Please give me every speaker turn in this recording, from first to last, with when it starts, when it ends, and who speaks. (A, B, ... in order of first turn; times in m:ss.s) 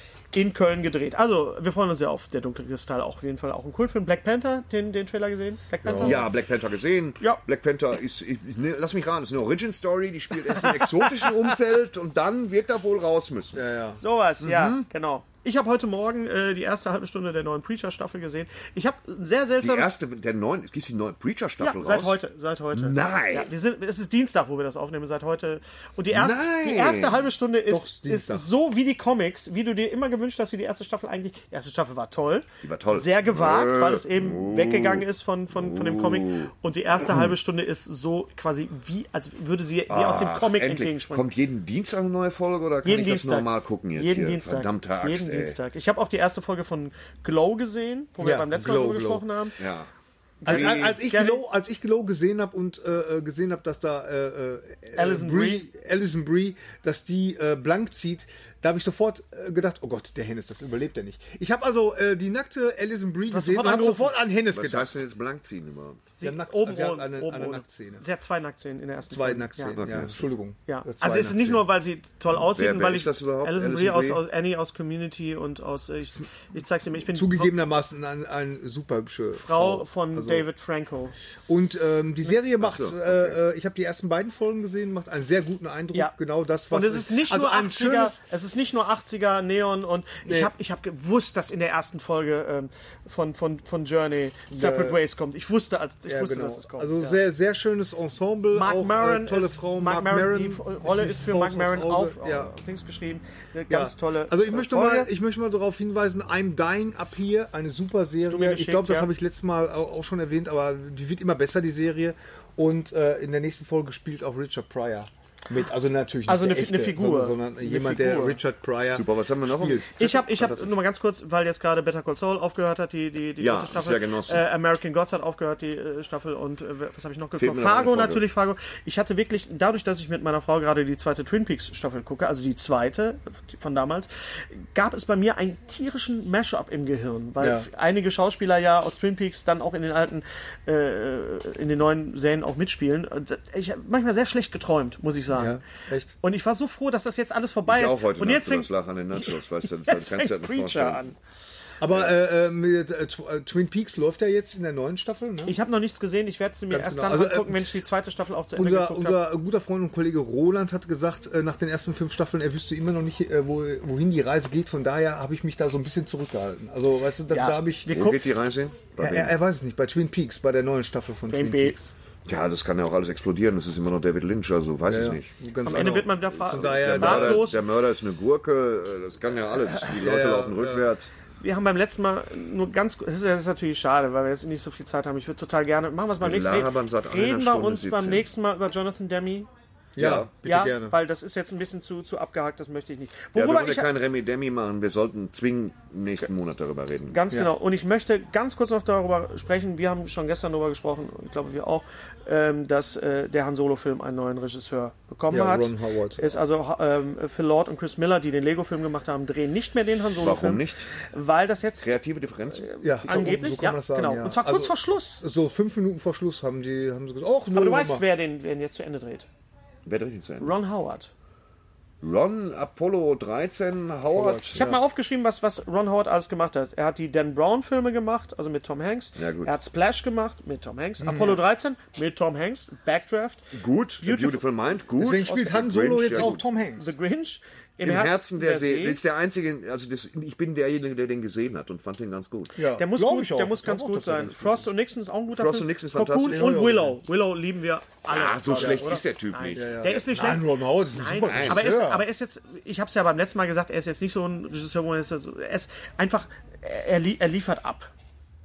0:00.3-0:06.2 A
0:05.8-0:06.2 B
0:06.0-0:13.6 C
0:10.6-0:11.4 A
0:13.6-0:14.0 B
0:14.0-0:19.9 A
0:14.4-0:14.9 C
0:19.6-0:22.2 C
0:21.6-0:41.3 A
0:22.7-0:23.5 C
0:26.2-0:27.2 C
0:27.7-0:28.5 B
0:32.6-0:36.5 C
0:39.9-0:45.6 C
0:42.8-0:49.6 A
0:48.2-0:49.2 B
0:49.6-0:49.9 C
0:50.4-0:51.4 A
0:50.4-0:51.0 C
0:50.4-1:04.9 B
0:55.0-0:55.7 A
1:03.3-1:04.2 A
1:04.5-1:06.0 C
1:06.2-1:09.8 A
1:06.2-1:08.0 B
1:09.1-1:11.6 B
1:09.8-1:10.3 C
1:10.7-1:17.5 A
1:12.4-1:14.2 C
1:17.1-1:20.4 B
1:19.3-1:21.2 A
1:21.5-1:28.2 B
1:22.6-1:23.4 C
1:26.7-1:37.2 A
1:30.2-1:30.5 B
1:34.5-1:35.0 B
1:36.1-1:42.5 B
1:38.5-1:45.1 A
1:43.7-2:00.0 B
1:48.2-1:49.1 A
1:56.3-1:58.4 A
1:58.9-2:00.8 C
2:00.0-2:25.6 A
2:03.4-2:04.5 C
2:07.4-2:08.2 C
2:17.4-2:17.7 B
2:25.3-2:26.1 B
2:26.2-2:29.4 A
2:27.7-2:31.1 C
2:29.9-2:31.2 A
2:31.8-2:35.6 B
2:35.5-2:39.2 A
2:36.7-2:37.8 B
2:38.6-2:47.9 B
2:47.3-2:48.2 A
2:47.9-2:49.3 C
2:49.0-2:51.9 B
2:51.3-2:51.8 A
2:52.3-3:01.1 C
2:54.9-2:57.5 B
2:55.6-2:57.6 A
2:59.9-3:00.9 B
3:01.4-3:09.5 A
3:06.2-3:08.3 C
3:10.0-3:11.0 B
3:10.0-3:10.3 C
3:10.4-3:13.9 A
3:13.4-3:17.2 C
3:17.1-3:32.0 A
3:25.3-3:26.2 B
3:30.2-3:30.9 C
3:31.8-3:33.4 C
3:32.5-3:35.2 A
3:32.8-3:38.0 B
3:37.5-3:39.3 A
3:39.9-3:40.5 C
3:40.4-3:41.1 A
3:42.0-3:44.7 C
3:44.1-3:44.8 B
3:44.6-3:53.4 A
3:49.2-3:49.5 C
3:51.0-3:51.4 B
3:53.5-3:56.4 C
3:54.0-3:54.4 A
3:55.0-3:56.9 B
3:55.3-3:55.6 A
3:56.8-3:59.0 A
3:57.8-4:02.6 C
4:02.6-4:04.6 B
4:02.8-4:17.9 A
4:05.3-4:06.5 C
4:06.3-4:07.0 B
4:08.1-4:10.0 C
4:09.6-4:12.1 B
4:11.2-4:11.8 C